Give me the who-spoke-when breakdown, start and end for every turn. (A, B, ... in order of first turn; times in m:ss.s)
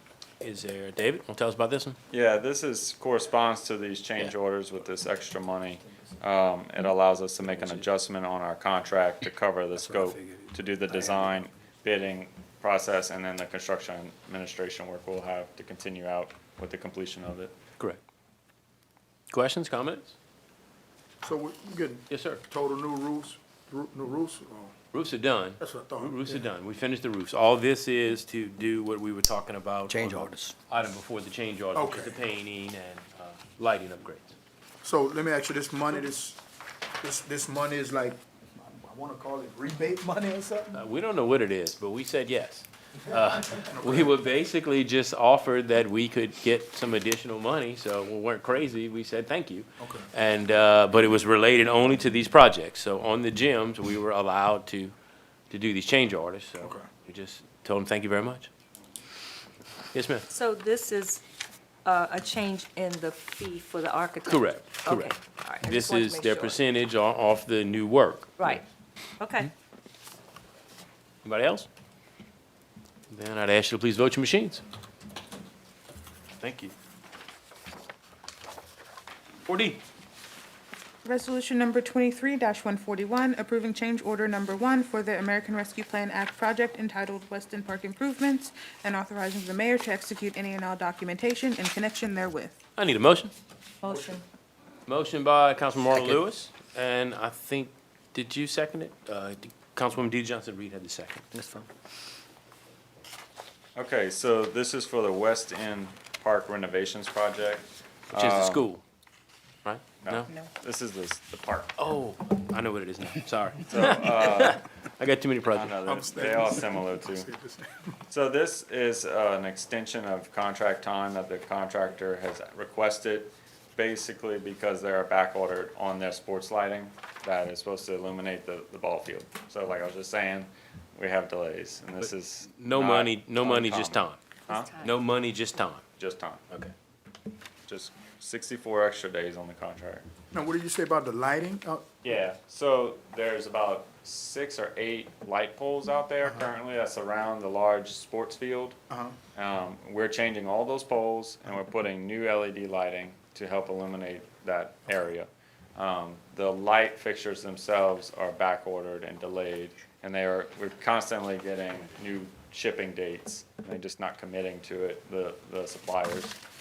0:00.4-0:02.0 A
0:02.1-0:17.6 B
0:07.5-0:07.8 A
0:10.1-0:11.3 C
0:19.3-0:20.1 A
0:21.2-0:24.8 D
0:22.1-0:22.4 A
0:24.9-0:34.4 A
0:25.6-0:26.4 D
0:29.9-0:30.5 C
0:31.7-0:32.2 D
0:34.8-0:36.4 D
0:37.0-0:40.8 D
0:40.7-0:55.0 A
0:43.5-0:44.2 D
0:49.8-0:50.1 D
0:55.5-0:58.5 A
0:56.6-0:56.9 D
0:59.9-1:00.3 A
1:00.3-1:01.2 E
1:01.8-1:06.6 E
1:04.3-1:08.6 A
1:09.2-1:09.5 E
1:11.2-1:11.7 A
1:13.1-1:14.6 A
1:16.4-1:16.7 A
1:19.5-1:19.8 A
1:21.0-1:32.6 F
1:32.8-1:33.3 A
1:33.8-1:34.2 F
1:34.9-1:41.3 A
1:35.9-1:36.2 C
1:41.3-1:41.7 C
1:43.8-1:48.7 B
1:48.1-1:48.8 A
1:49.6-1:50.3 A
1:50.0-1:51.7 B
1:51.8-1:55.8 A
1:53.7-1:54.6 B
1:55.5-1:57.3 B
1:55.8-1:58.0 D
1:58.1-2:14.7 B
2:12.0-2:14.2 A
2:14.8-2:15.8 A
2:16.0-2:16.4 B
2:17.7-2:20.1 B
2:20.3-2:21.9 D
2:22.0-2:28.8 B
2:28.9-2:29.2 D
2:29.4-2:46.4 B